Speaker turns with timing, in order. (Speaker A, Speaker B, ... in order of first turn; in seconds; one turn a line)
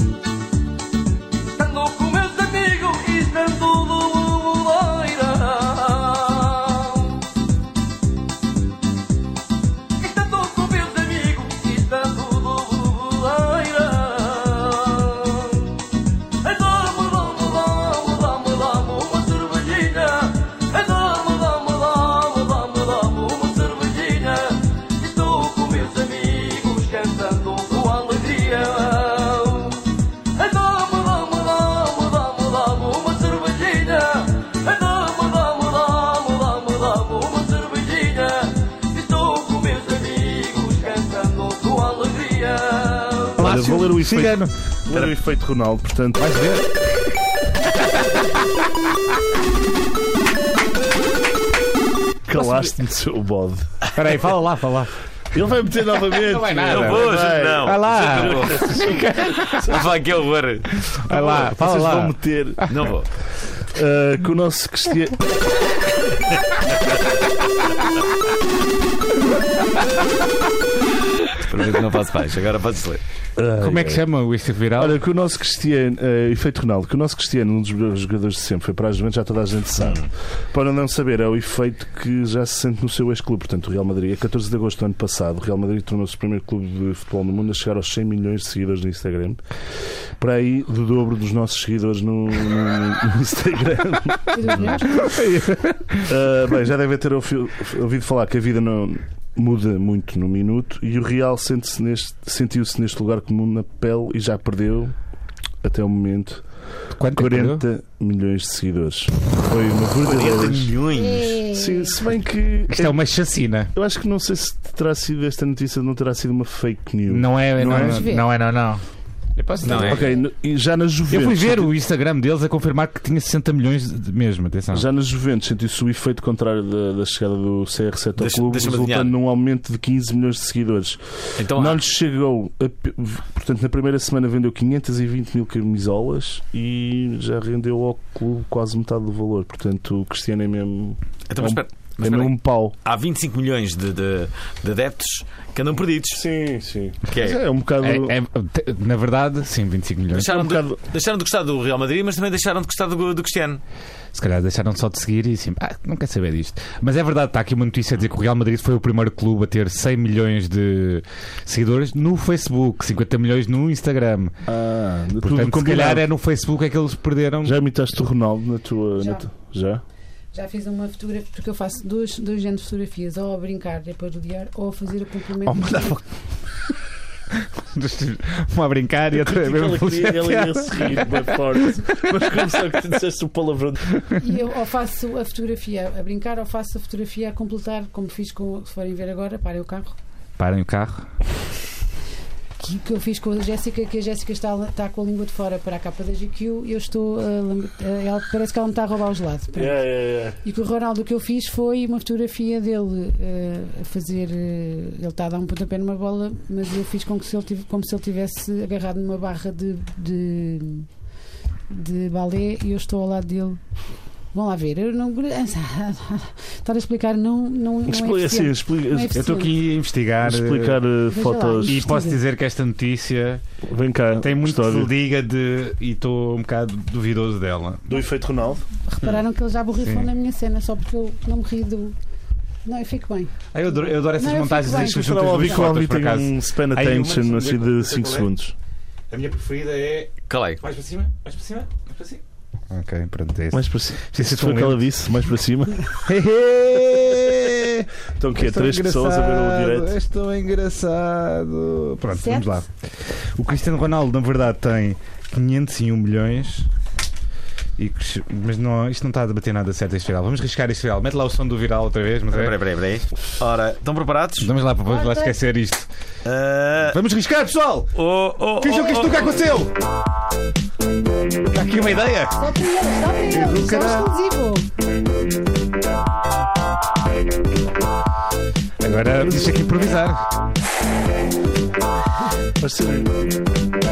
Speaker A: 1.6-7.2
Speaker A: 10.0-15.8
Speaker A: 16.4-29.8
Speaker A: 30.4-43.4
Speaker B: 43.4-45.1
Speaker C: 43.4-46.3
Speaker B: 46.2-47.0
Speaker B: 47.8-48.2
Speaker C: 52.3-53.7
Speaker B: 52.3-52.8
Speaker B: 54.0-54.9
Speaker C: 55.3-59.8
Speaker B: 56.1-59.8
Speaker D: 56.6-60.9
Speaker B: 60.8-62.7
Speaker C: 61.1-62.8
Speaker D: 62.7-63.1
Speaker C: 63.6-65.2
Speaker D: 71.3-73.0
Speaker C: 73.4-74.0
Speaker B: 73.6-75.0
Speaker C: 74.8-89.4
Speaker D: 79.8-80.1
Speaker C: 90.2-95.0
Speaker E: 94.3-95.1
Speaker B: 94.9-96.0
Speaker C: 96.0-105.0
Speaker C: 105.6-106.5
Speaker B: 107.0-107.7
Speaker C: 107.1-110.8
Speaker D: 110.0-111.4
Speaker E: 110.9-112.0
Speaker C: 111.5-113.0
Speaker B: 112.7-113.7
Speaker C: 113.7-118.1
Speaker B: 117.1-118.8
Speaker E: 117.7-118.3
Speaker B: 119.4-120.2
Speaker C: 119.6-121.7
Speaker D: 119.7-120.1
Speaker B: 121.1-124.9
Speaker C: 124.7-142.7
Speaker D: 128.2-129.1
Speaker D: 131.4-131.8
Speaker D: 141.3-146.2
Speaker C: 146.1-148.2
Speaker D: 147.1-147.4
Speaker B: 147.8-150.4
Speaker D: 150.1-153.6
Speaker C: 150.2-150.8
Speaker B: 154.1-164.3
Speaker C: 164.5-166.1
Speaker B: 165.2-167.6
Speaker C: 167.4-169.8
Speaker E: 169.0-169.3
Speaker E: 170.3-176.0
Speaker B: 175.4-176.1
Speaker B: 177.4-182.4
Speaker C: 179.2-184.0
Speaker E: 184.2-190.0
Speaker B: 190.4-191.1
Speaker E: 192.6-210.9
Speaker C: 199.6-200.4
Speaker E: 211.7-213.6
Speaker E: 214.3-219.5
Speaker C: 217.9-219.3
Speaker B: 219.1-220.8
Speaker C: 220.2-221.8
Speaker E: 221.1-222.2
Speaker B: 221.6-223.4
Speaker C: 223.7-224.9
Speaker B: 224.2-228.0
Speaker C: 227.9-228.7
Speaker E: 228.8-232.0
Speaker B: 229.8-230.1
Speaker E: 232.7-233.3
Speaker B: 233.5-238.3
Speaker E: 234.0-235.6
Speaker C: 234.8-238.5
Speaker B: 239.1-244.9
Speaker D: 240.3-240.6
Speaker C: 243.5-245.9
Speaker B: 245.9-256.7
Speaker C: 248.2-249.9
Speaker E: 252.1-252.6
Speaker B: 257.8-262.6
Speaker D: 262.3-264.5
Speaker B: 264.4-265.9
Speaker E: 264.9-265.4
Speaker D: 266.2-267.0
Speaker B: 266.9-267.9
Speaker D: 267.9-269.4
Speaker B: 268.6-269.7
Speaker B: 271.5-272.4
Speaker E: 272.4-274.7
Speaker B: 273.3-274.1
Speaker B: 278.8-280.3
Speaker C: 282.6-283.3